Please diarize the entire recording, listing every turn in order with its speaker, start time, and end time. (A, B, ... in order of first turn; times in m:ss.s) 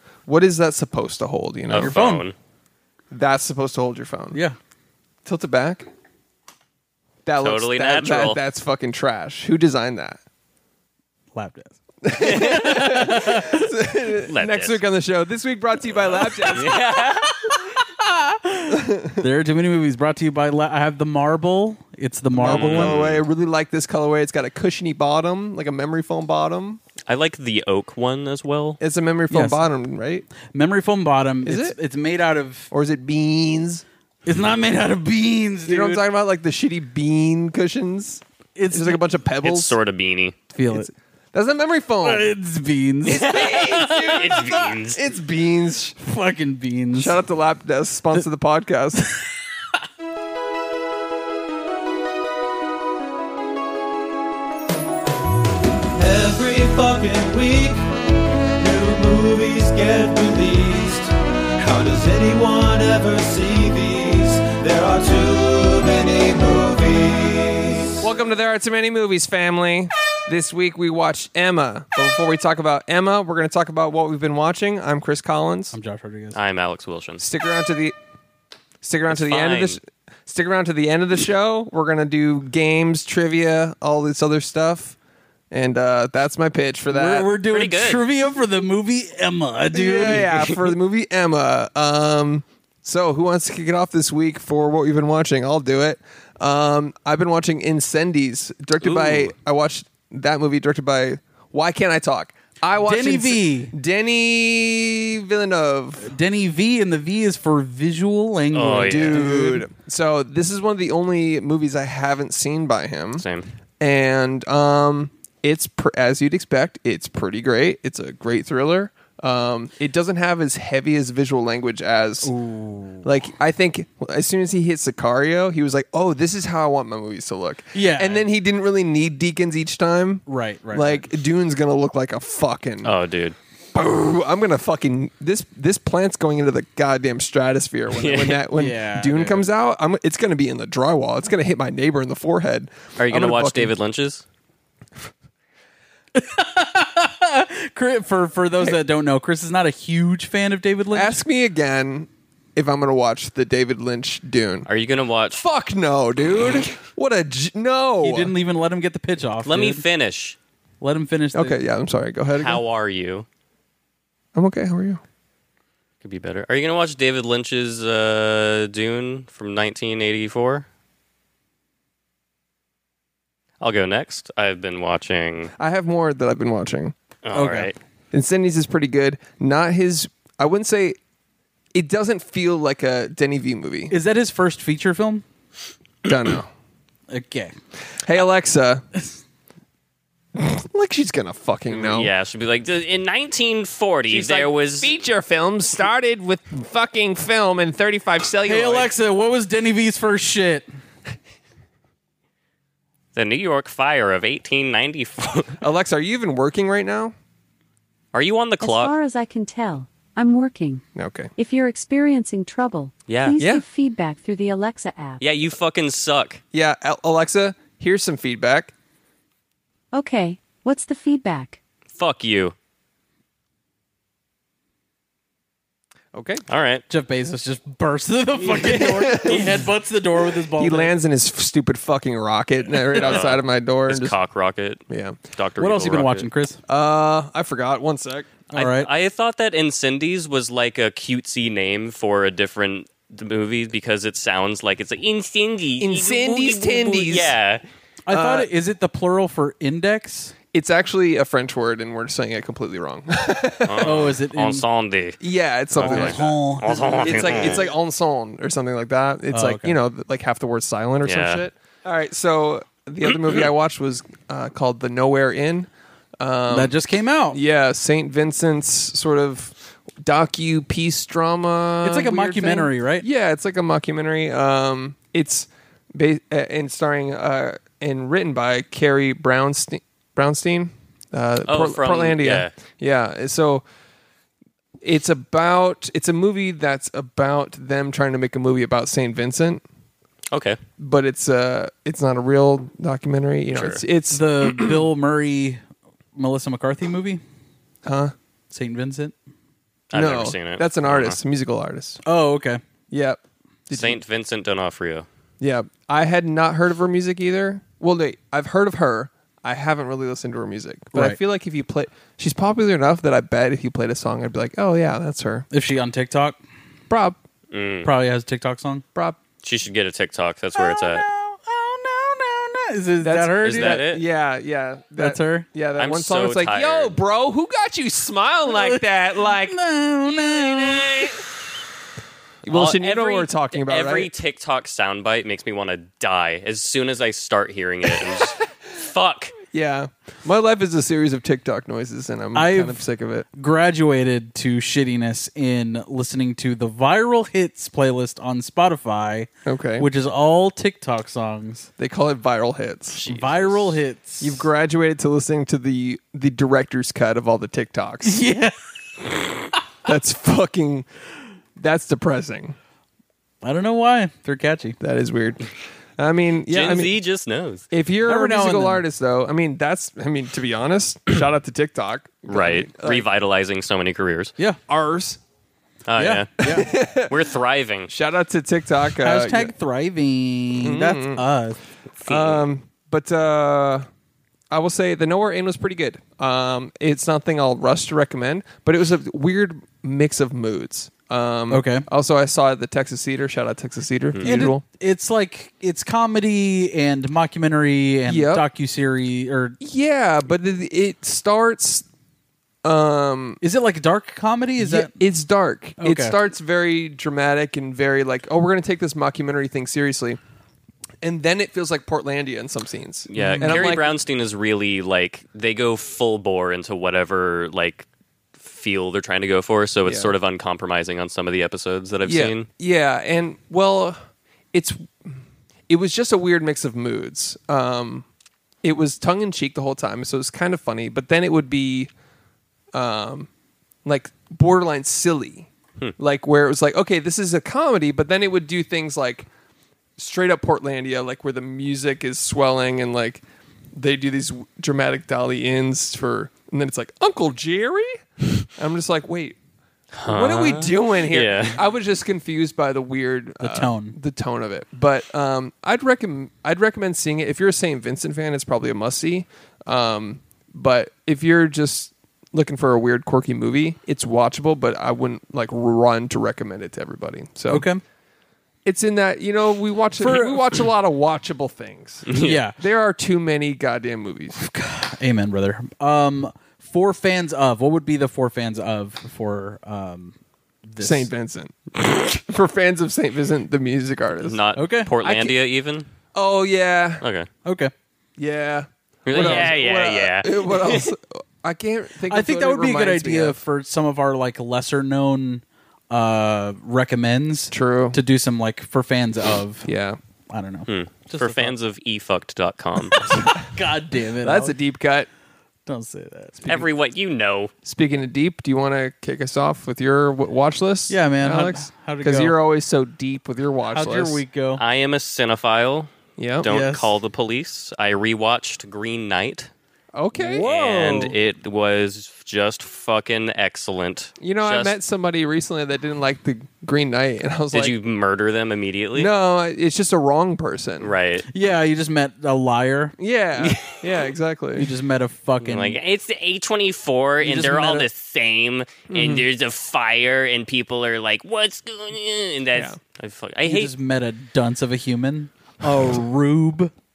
0:00.3-0:02.0 A
0:01.7-0:02.4 B
0:01.8-0:02.2 C
0:03.1-0:04.4 A
0:05.2-0:05.9 A
0:07.3-0:10.2 A
0:07.4-0:08.4 B
0:11.4-0:13.7 C
0:12.0-0:16.8 A
0:12.2-0:12.9 B
0:14.3-0:14.8 B
0:16.2-0:23.0 C
0:16.5-0:17.3 B
0:18.7-0:19.2 A
0:22.3-0:26.8 A
0:22.4-0:23.2 B
0:27.1-0:28.8 B
0:28.8-0:30.3 A
0:29.3-0:29.6 C
0:30.5-0:32.7 C
0:31.4-0:31.8 A
0:32.7-0:33.8 A
0:34.2-0:36.0 C
0:35.6-0:39.8 A
0:38.6-0:39.0 C
0:39.4-0:40.4 B
0:40.5-0:40.9 C
0:40.7-0:42.3 A
0:42.0-0:44.6 C
0:43.0-0:46.0 A
0:43.1-0:45.1 B
0:46.0-0:47.2 C
0:47.0-0:49.1 A
0:56.0-0:57.8 D
0:58.6-1:08.0 D
1:08.0-1:15.8 A
1:15.7-1:16.4 C
1:16.3-1:17.2 B
1:17.2-1:18.0 A
1:18.8-1:25.0 A
1:19.1-1:19.8 B
1:25.5-1:27.3 A
1:26.9-1:30.6 C
1:27.5-1:28.0 B
1:29.7-1:46.1 A
1:38.8-1:39.3 B
1:42.8-1:43.7 C
1:46.0-1:49.7 C
1:48.5-1:49.3 B
1:48.9-1:53.2 A
1:53.2-1:53.5 B
1:53.8-2:02.3 A
2:02.2-2:03.1 C
2:03.0-2:13.0 A
2:07.7-2:08.3 C
2:10.3-2:11.1 C
2:12.8-2:13.4 B
2:13.7-2:23.8 A
2:17.9-2:18.5 B
2:18.6-2:19.5 C
2:23.0-2:24.2 B
2:26.2-2:31.2 C
2:30.9-2:34.7 A
2:34.7-2:35.5 B
2:35.4-2:38.3 A
2:38.0-2:39.8 C
2:39.4-2:40.4 B
2:40.8-2:41.6 C
2:41.3-2:42.6 A
2:42.4-2:43.2 B
2:44.3-2:45.0 A
2:46.0-2:50.7 B
2:53.6-2:55.5 B
2:55.6-2:56.9 A
2:57.2-2:57.8 B
2:57.3-2:57.7 C
2:58.1-3:01.0 A
3:01.7-3:03.9 A
3:03.9-3:05.2 C
3:06.0-3:06.5 A
3:07.1-3:07.6 C
3:08.0-3:08.8 A
3:10.3-3:12.1 A
3:11.7-3:14.9 B
3:14.1-3:18.9 A
3:18.5-3:20.7 C
3:23.2-3:25.6 B
3:25.6-3:27.1 A
3:28.1-3:28.9 B
3:28.6-3:30.8 E
3:30.9-3:31.3 A
3:31.4-3:35.2 E
3:33.1-3:33.4 B
3:33.4-3:33.6 A
3:35.2-3:36.4 B
3:36.5-3:38.7 A
3:39.9-3:41.6 E
3:41.9-3:42.6 B
3:46.1-3:46.4 A
3:46.5-3:46.8 B
3:46.9-3:50.9 C
3:48.4-3:49.6 B
3:48.6-3:49.6 A
3:50.6-3:54.2 A
3:53.0-3:56.3 B
3:54.9-3:55.2 A
3:55.6-3:56.6 C
3:56.7-3:58.3 A
3:58.5-4:07.6 B
3:58.5-3:58.9 C
4:05.8-4:07.3 A
4:08.1-4:10.3 C
4:08.1-4:08.5 A
4:10.5-4:14.0 A
4:13.7-4:15.2 B
4:13.8-4:14.6 C
4:15.2-4:25.7 A
4:15.8-4:17.7 B
4:15.8-4:17.6 C
4:19.3-4:19.8 C
4:21.0-4:21.4 B
4:26.2-4:26.8 A
4:26.5-4:27.4 C
4:27.3-4:43.6 A
4:31.8-4:33.0 C
4:41.5-4:42.5 B
4:44.8-4:49.6 A
4:50.3-4:50.6 B
4:50.8-4:54.8 A
4:53.5-4:53.8 B
4:54.1-4:55.6 C
4:56.2-4:57.2 C
4:57.8-4:58.1 A
4:58.5-4:59.1 C
4:59.9-5:01.2 B
4:59.9-5:02.0 A
5:02.0-5:02.6 C
5:02.9-5:04.0 A
5:03.7-5:05.0 B
5:05.4-5:15.5 A
5:10.9-5:11.2 C
5:15.5-5:16.4 C
5:16.9-5:17.2 A
5:17.5-5:17.9 B
5:17.8-5:18.8 C
5:19.4-5:21.0 B
5:20.5-5:23.8 C
5:23.0-5:29.6 A
5:23.4-5:24.0 B
5:25.0-5:25.4 C
5:25.8-5:27.0 B
5:28.5-5:31.1 C
5:30.1-5:31.2 B
5:30.7-5:31.1 A
5:32.4-5:34.1 A
5:32.5-5:39.4 B
5:39.5-5:43.2 A
5:42.3-5:51.7 C
5:49.4-5:49.9 A
5:51.8-5:53.0 A
5:52.9-5:53.8 B
5:53.0-5:54.5 C
5:54.2-5:58.2 A
5:58.0-5:59.1 C
5:59.8-6:00.9 A
6:01.6-6:02.6 A
6:03.4-6:04.8 C
6:04.8-6:05.4 A
6:06.0-6:07.0 A
6:06.5-6:07.7 B
6:07.7-6:13.1 A
6:08.0-6:08.8 C
6:12.3-6:14.3 B
6:14.7-6:15.2 A
6:15.9-6:17.9 B
6:16.0-6:16.7 C
6:16.4-6:17.2 A
6:17.9-6:19.5 A
6:19.0-6:21.6 C
6:20.6-6:21.2 A
6:21.9-6:22.4 B
6:22.0-6:23.9 A
6:24.5-6:34.6 A
6:31.5-6:31.8 C
6:34.1-6:34.5 B
6:34.2-6:39.6 C
6:38.0-6:38.4 A
6:39.6-6:41.8 A
6:42.6-6:43.4 A
6:43.4-6:44.9 C
6:44.6-6:50.2 A
6:45.8-6:46.2 C
6:51.0-6:54.0 A
6:53.1-6:57.8 B
6:53.1-6:53.7 C
6:58.4-7:02.5 B
6:59.8-7:00.1 A
7:02.0-7:04.0 A
7:04.5-7:04.9 A
7:05.7-7:08.0 A
7:08.6-7:11.9 A
7:12.7-7:13.3 A
7:13.8-7:19.3 A
7:20.0-7:23.2 A
7:23.7-7:29.4 A
7:29.9-7:31.6 B
7:30.1-7:47.7 A
7:33.4-7:34.0 C
7:47.5-7:47.8 C
7:48.6-7:54.4 A
7:50.0-7:50.6 C
7:52.0-7:52.4 B
7:52.1-7:52.6 C
7:54.4-8:00.1 C
8:00.6-8:01.1 C
8:00.8-8:04.4 A
8:04.2-8:05.9 B
8:04.5-8:04.9 C
8:05.0-8:05.4 A
8:06.1-8:07.0 A
8:07.0-8:07.3 B
8:07.4-8:07.7 C
8:08.2-8:13.4 A
8:09.0-8:10.9 B
8:09.1-8:09.5 C
8:12.1-8:19.7 C
8:17.5-8:18.0 A
8:19.6-8:20.0 A
8:20.3-8:21.5 C
8:20.7-8:23.2 B
8:22.9-8:24.6 C
8:24.2-8:25.1 A
8:25.6-8:26.4 C
8:26.4-8:26.7 A
8:26.4-8:27.5 B
8:27.6-8:34.2 A
8:30.9-8:32.4 C
8:33.7-8:34.6 C
8:34.6-8:39.5 B
8:36.2-8:36.5 A
8:36.4-8:36.9 C
8:39.9-8:40.5 A
8:40.2-8:41.2 C
8:40.3-8:44.8 B
8:44.2-8:47.8 A
8:47.5-8:49.1 B
8:48.9-8:50.9 A
8:50.8-8:51.3 B
8:51.3-8:52.9 C
8:53.0-8:54.7 A
8:53.4-8:54.0 B
8:54.6-8:55.8 C
8:55.4-9:03.7 B
8:57.2-8:57.9 A
8:58.9-8:59.2 A
9:03.4-9:06.7 C